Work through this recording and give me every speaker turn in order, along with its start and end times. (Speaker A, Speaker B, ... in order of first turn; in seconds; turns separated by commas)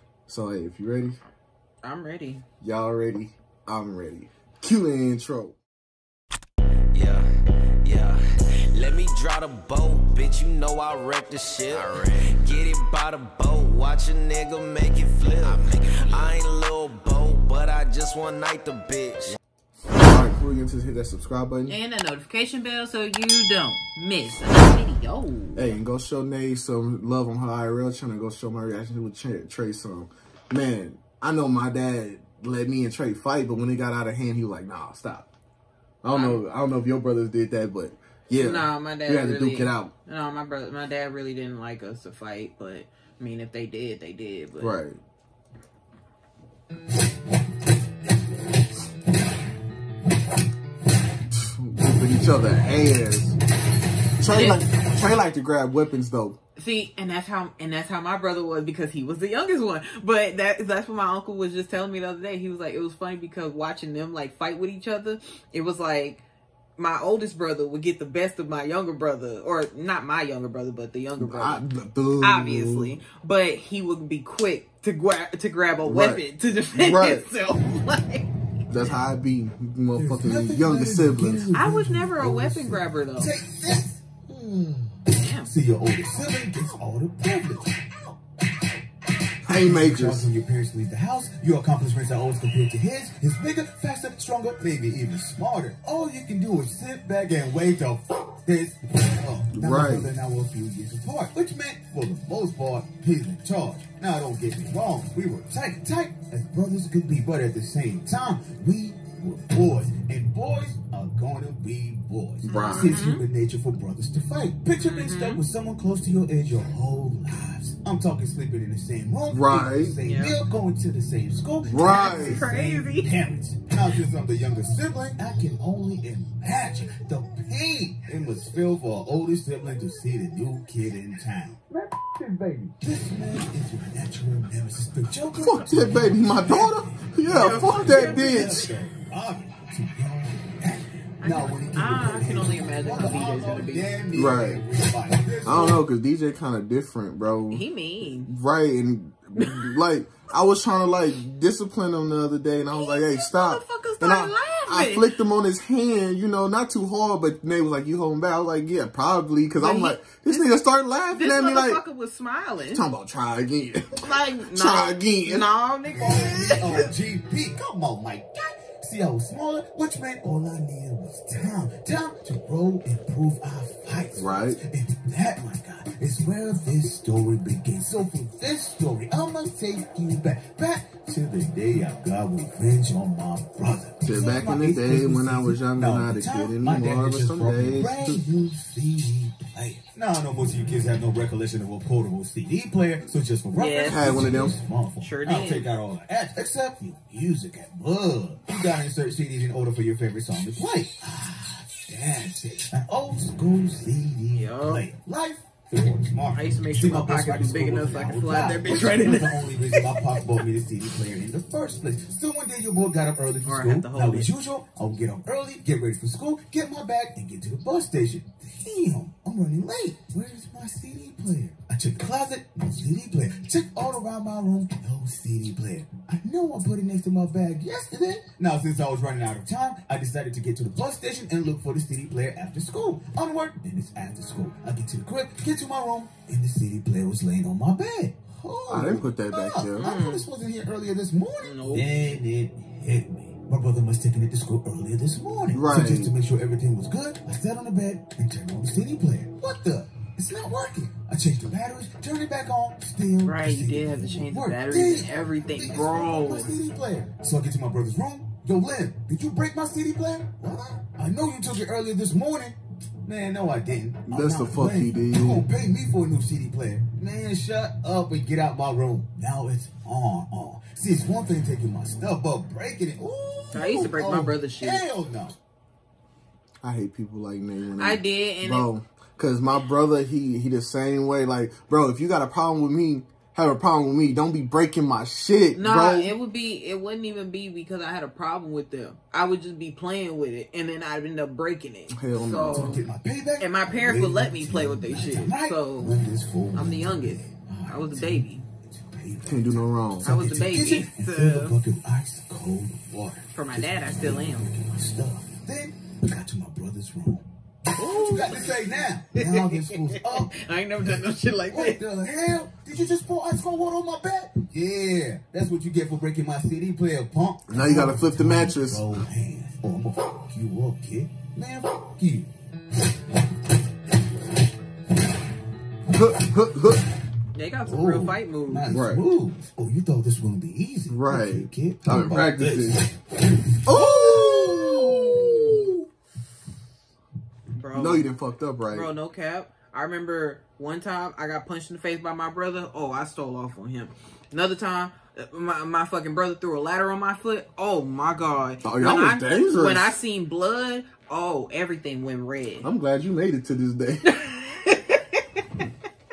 Speaker A: 0.3-1.2, Speaker B: 1.8-2.4, Speaker A: 2.6-5.6, Speaker C: 6.9-7.3, Speaker C: 7.8-19.4, Speaker A: 19.9-21.8, Speaker B: 21.7-25.7, Speaker A: 25.5-35.3, Speaker A: 36.0-39.9, Speaker B: 36.1-36.4, Speaker B: 38.4-44.8, Speaker A: 44.6-45.0, Speaker A: 51.3-53.4, Speaker A: 54.2-56.4, Speaker B: 54.3-54.6, Speaker B: 56.5-66.2, Speaker B: 66.8-71.6, Speaker A: 71.2-73.0, Speaker B: 72.2-78.9, Speaker A: 75.8-76.2, Speaker A: 76.8-77.3, Speaker A: 78.7-81.5, Speaker D: 79.9-87.8, Speaker B: 81.5-83.3, Speaker B: 85.1-85.5, Speaker A: 89.4-90.3, Speaker D: 89.5-145.8, Speaker A: 99.5-100.1, Speaker B: 112.4-113.2, Speaker A: 112.4-113.0, Speaker B: 114.8-115.4, Speaker A: 119.3-120.0, Speaker B: 120.0-120.4, Speaker A: 121.7-122.4, Speaker B: 121.8-123.1, Speaker A: 135.4-138.7, Speaker B: 137.3-138.7, Speaker B: 141.2-143.9, Speaker A: 144.1-144.6, Speaker A: 145.4-147.6, Speaker B: 147.5-148.3, Speaker A: 148.2-161.8, Speaker B: 149.4-149.6, Speaker B: 152.7-155.1, Speaker B: 159.6-160.5, Speaker B: 161.1-162.8, Speaker A: 162.7-165.5, Speaker B: 164.0-166.9, Speaker D: 165.9-275.4, Speaker A: 174.2-174.6, Speaker A: 184.0-188.2, Speaker B: 193.5-194.2, Speaker A: 193.8-194.6, Speaker B: 195.0-195.7, Speaker B: 204.3-204.8, Speaker B: 206.3-210.2, Speaker B: 213.4-214.3, Speaker A: 238.7-239.9, Speaker B: 239.8-240.3, Speaker B: 241.4-241.9, Speaker A: 245.5-246.1, Speaker B: 253.2-256.5, Speaker A: 264.1-265.5, Speaker B: 273.5-274.9, Speaker A: 276.6-286.1, Speaker B: 277.8-278.7, Speaker B: 285.5-292.8, Speaker A: 291.9-292.8, Speaker D: 292.5-322.3, Speaker B: 293.4-296.0, Speaker B: 296.5-298.4, Speaker A: 299.2-300.3, Speaker B: 300.0-301.6, Speaker B: 303.3-304.5, Speaker B: 307.8-311.8, Speaker A: 317.5-318.9, Speaker A: 325.9-326.8, Speaker B: 327.3-328.7, Speaker D: 327.6-335.7, Speaker A: 328.7-329.1, Speaker A: 330.9-332.8, Speaker A: 333.6-335.7, Speaker B: 337.5-338.1, Speaker A: 337.7-338.9, Speaker B: 338.6-352.7, Speaker A: 348.6-349.9, Speaker A: 352.6-354.3, Speaker B: 354.1-355.4